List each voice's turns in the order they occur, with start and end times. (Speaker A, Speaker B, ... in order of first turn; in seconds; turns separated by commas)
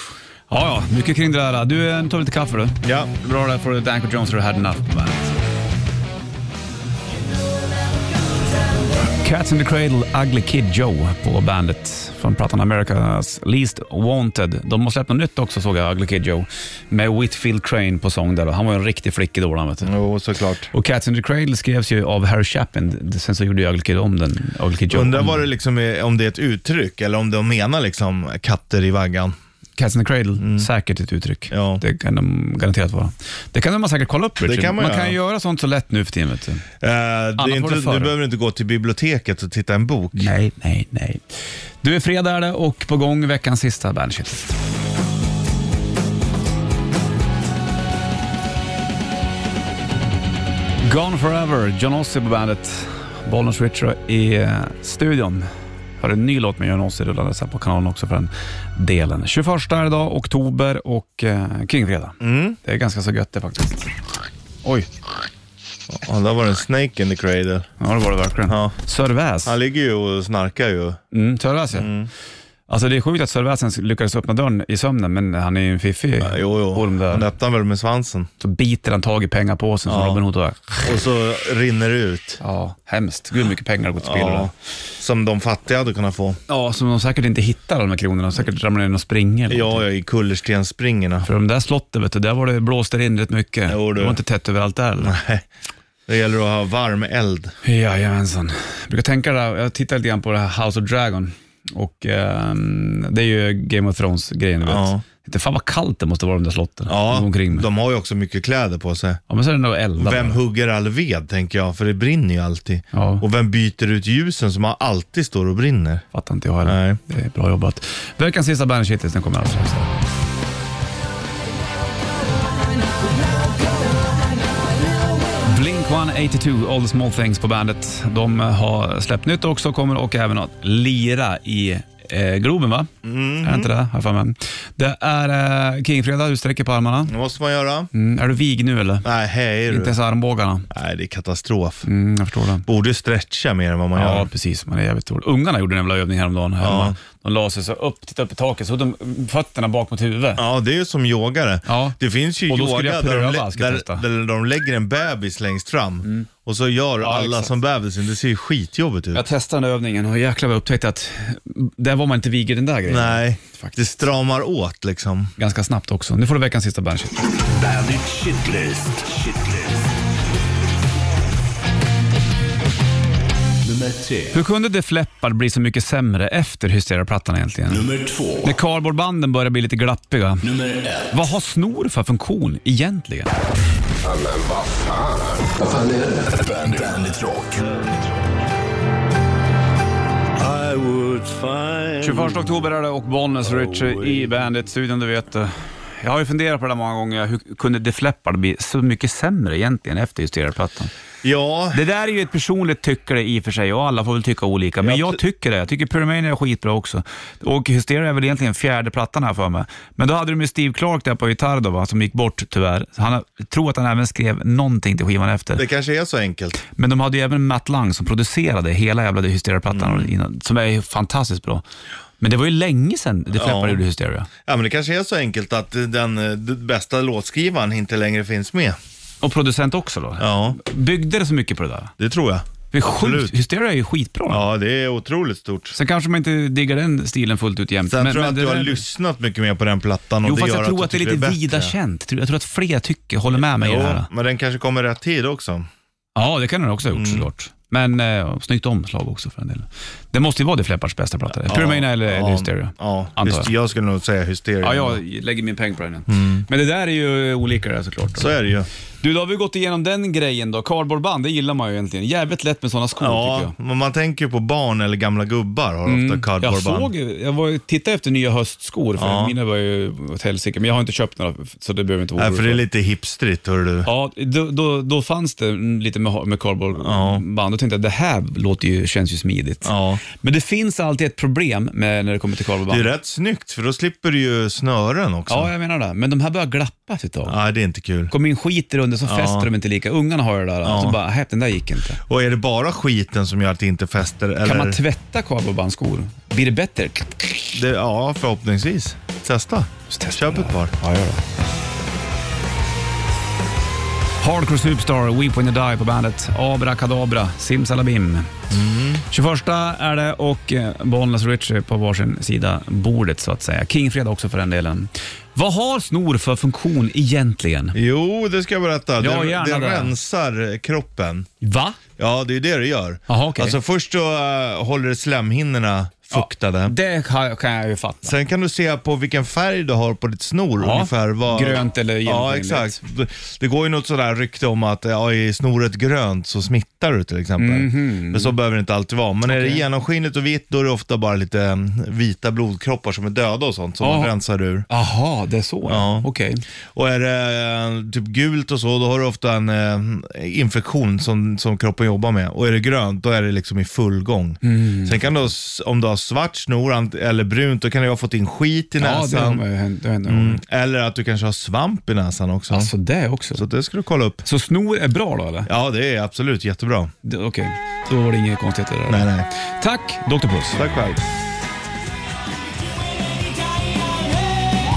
Speaker A: 0.5-5.3, Speaker B: 2.8-3.1, Speaker A: 9.2-19.9, Speaker B: 19.8-20.7, Speaker A: 20.7-25.5, Speaker B: 24.9-29.4, Speaker A: 29.8-36.6, Speaker B: 30.4-30.7, Speaker B: 31.5-31.8, Speaker B: 34.4-35.2, Speaker B: 36.8-40.3, Speaker A: 37.4-38.1, Speaker A: 40.1-41.2, Speaker A: 41.8-44.5, Speaker A: 50.8-55.5, Speaker A: 56.0-63.9, Speaker B: 62.2-62.6, Speaker B: 65.9-67.7, Speaker A: 67.8-69.5, Speaker B: 68.5-68.7, Speaker B: 69.4-71.0, Speaker A: 71.1-71.9, Speaker B: 71.7-72.1, Speaker A: 72.7-77.3, Speaker B: 76.2-78.3, Speaker A: 78.4-80.9, Speaker B: 79.9-80.2, Speaker B: 80.8-82.4, Speaker A: 82.4-84.5, Speaker B: 84.0-86.4, Speaker A: 86.5-89.8, Speaker B: 89.5-91.2, Speaker A: 91.2-95.2, Speaker B: 93.7-94.2, Speaker B: 95.0-95.4, Speaker B: 96.1-97.5, Speaker A: 97.6-107.7, Speaker B: 104.6-105.0, Speaker B: 106.9-109.2, Speaker A: 109.3-110.4, Speaker B: 110.0-116.0, Speaker A: 112.9-113.2, Speaker A: 116.1-119.9, Speaker B: 116.6-117.0, Speaker A: 125.4-132.9, Speaker B: 133.0-133.7, Speaker A: 133.4-137.1, Speaker B: 137.1-137.9, Speaker A: 137.9-139.1, Speaker B: 139.0-139.9, Speaker A: 139.7-140.7, Speaker B: 140.7-141.9, Speaker A: 141.8-142.7, Speaker B: 142.7-144.3, Speaker A: 143.9-150.4, Speaker B: 146.6-147.0, Speaker B: 150.3-159.2, Speaker A: 151.7-152.0, Speaker A: 152.5-154.0, Speaker A: 157.0-157.5, Speaker A: 159.1-164.0, Speaker B: 162.8-165.3, Speaker A: 165.4-167.2, Speaker C: 167.4-169.9, Speaker C: 173.6-174.4, Speaker A: 174.3-177.8, Speaker C: 177.7-178.5, Speaker A: 178.4-180.4, Speaker C: 180.4-181.1, Speaker A: 181.1-183.3, Speaker C: 184.0-188.0, Speaker C: 190.4-191.9, Speaker B: 191.8-192.3, Speaker A: 192.0-200.9, Speaker B: 193.8-194.2, Speaker B: 201.2-201.8, Speaker A: 201.7-215.6, Speaker B: 204.8-205.2, Speaker B: 215.6-216.6, Speaker A: 216.6-221.6, Speaker B: 219.7-220.1, Speaker A: 222.2-224.3, Speaker B: 223.3-223.8, Speaker B: 224.4-228.8, Speaker A: 229.2-231.9, Speaker B: 230.2-230.6, Speaker B: 232.0-233.3, Speaker A: 232.7-234.4, Speaker B: 234.3-235.8, Speaker A: 235.7-238.8, Speaker B: 237.8-241.8, Speaker A: 240.2-244.1, Speaker B: 243.3-245.7, Speaker A: 246.2-253.5, Speaker B: 246.9-247.3, Speaker B: 251.4-255.0, Speaker A: 254.6-258.3, Speaker B: 256.1-256.4, Speaker B: 258.2-258.7, Speaker A: 259.0-263.5, Speaker B: 263.0-266.9, Speaker A: 265.9-272.6, Speaker B: 269.0-269.3, Speaker B: 272.2-273.9, Speaker A: 273.8-282.9, Speaker B: 276.8-277.2, Speaker B: 279.6-280.0, Speaker B: 282.7-285.5, Speaker A: 285.3-287.4, Speaker B: 287.2-288.1, Speaker A: 288.1-292.0, Speaker B: 289.0-289.5, Speaker B: 290.6-291.0, Speaker B: 292.1-294.8, Speaker A: 294.4-297.6, Speaker B: 297.5-300.7, Speaker A: 299.9-301.2, Speaker A: 304.2-308.3, Speaker B: 308.5-309.0, Speaker A: 309.1-317.8, Speaker B: 317.7-321.3, Speaker A: 319.0-319.9, Speaker A: 321.4-321.8, Speaker B: 322.0-326.7, Speaker A: 323.1-323.6, Speaker A: 326.1-328.1, Speaker B: 328.0-344.6, Speaker A: 330.6-332.8, Speaker A: 337.4-338.3, Speaker A: 339.2-339.6, Speaker A: 343.8-344.1, Speaker A: 344.7-346.4, Speaker B: 345.6-346.1, Speaker B: 346.7-359.4, Speaker A: 354.4-355.3, Speaker A: 358.8-360.4, Speaker B: 360.1-362.7, Speaker A: 362.5-363.4, Speaker B: 363.3-364.2, Speaker A: 364.2-365.5, Speaker B: 365.4-366.9, Speaker A: 367.0-370.6, Speaker B: 368.9-369.3, Speaker B: 370.5-371.0